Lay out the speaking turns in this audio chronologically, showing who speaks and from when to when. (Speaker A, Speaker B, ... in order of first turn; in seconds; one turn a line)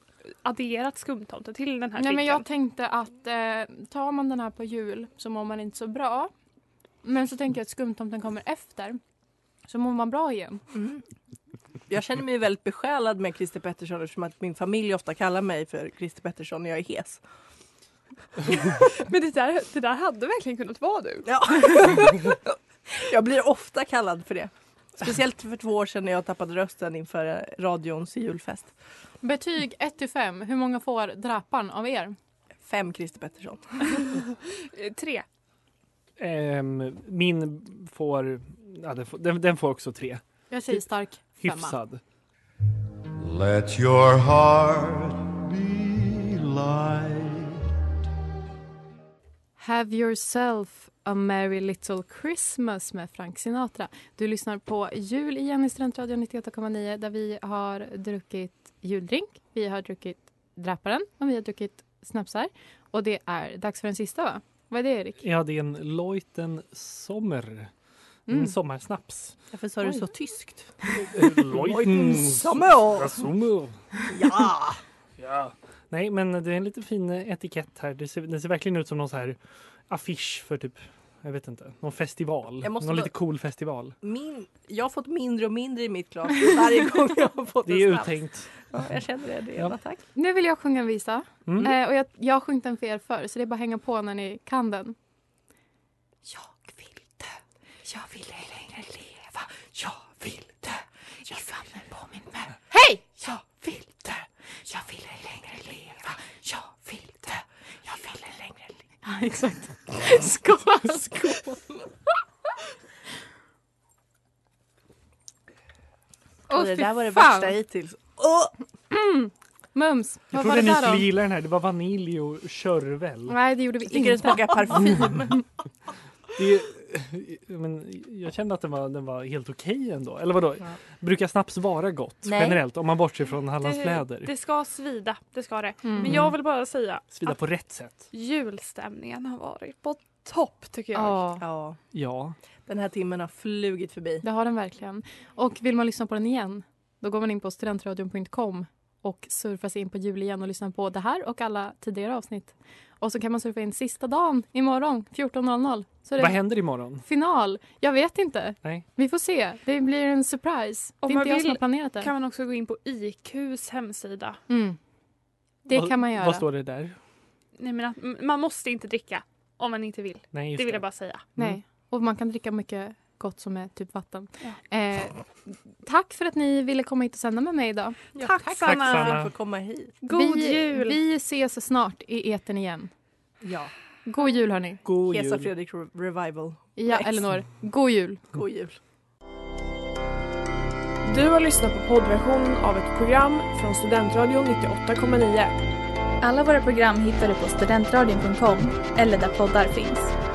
Speaker A: 0.4-2.4
Speaker B: 2.0-6.3
Speaker B: 7.0-9.0
Speaker B: 9.7-10.6
Speaker C: 10.7-11.0
Speaker C: 11.9-17.2
Speaker A: 18.5-21.3
Speaker C: 21.2-28.7
Speaker B: 29.2-32.1
Speaker C: 32.6-34.1
Speaker A: 34.7-35.2
Speaker D: 36.2-40.2
Speaker B: 40.5-41.8
Speaker D: 41.4-42.0
Speaker E: 43.2-47.7
Speaker B: 49.6-65.2
Speaker D: 65.2-67.7
Speaker B: 68.3-68.5
Speaker D: 68.3-69.3
Speaker C: 69.5-70.7
Speaker D: 71.0-73.8
Speaker C: 71.4-73.3
Speaker C: 74.1-74.8
Speaker D: 75.2-84.0
Speaker C: 82.6-83.1
Speaker C: 84.0-90.0
Speaker D: 87.7-88.5
Speaker B: 90.1-95.0
Speaker D: 91.5-91.7
Speaker B: 96.3-97.3
Speaker B: 97.8-107.4
Speaker B: 107.9-108.2
Speaker B: 109.0-111.6
Speaker C: 111.2-111.7
Speaker B: 116.5-117.6
Speaker C: 116.5-118.5
Speaker B: 118.9-121.1
Speaker D: 120.3-123.4
Speaker B: 123.3-125.1
Speaker C: 123.8-125.4
Speaker D: 126.3-134.3
Speaker C: 132.2-132.6
Speaker A: 133.6-137.4
Speaker B: 135.8-136.2
Speaker D: 137.1-138.1
Speaker A: 138.1-141.2
Speaker B: 140.9-141.4
Speaker C: 141.4-141.8
Speaker D: 141.9-142.3
Speaker C: 142.7-144.2
Speaker B: 144.2-162.1
Speaker D: 156.2-157.0
Speaker A: 161.0-164.4
Speaker B: 164.5-164.8
Speaker B: 165.7-166.4
Speaker D: 165.7-167.0
Speaker A: 167.6-171.2
Speaker D: 170.3-170.8
Speaker B: 171.4-178.1
Speaker C: 178.2-179.9
Speaker A: 178.2-179.2
Speaker D: 178.6-179.3
Speaker A: 180.0-181.0
Speaker B: 180.0-182.9
Speaker C: 183.4-183.7
Speaker B: 184.1-184.8
Speaker D: 184.8-185.5
Speaker C: 185.0-187.3
Speaker B: 186.8-188.2
Speaker C: 188.3-188.8
Speaker F: 191.0-195.6
Speaker G: 196.3-198.4
Speaker G: 199.2-199.8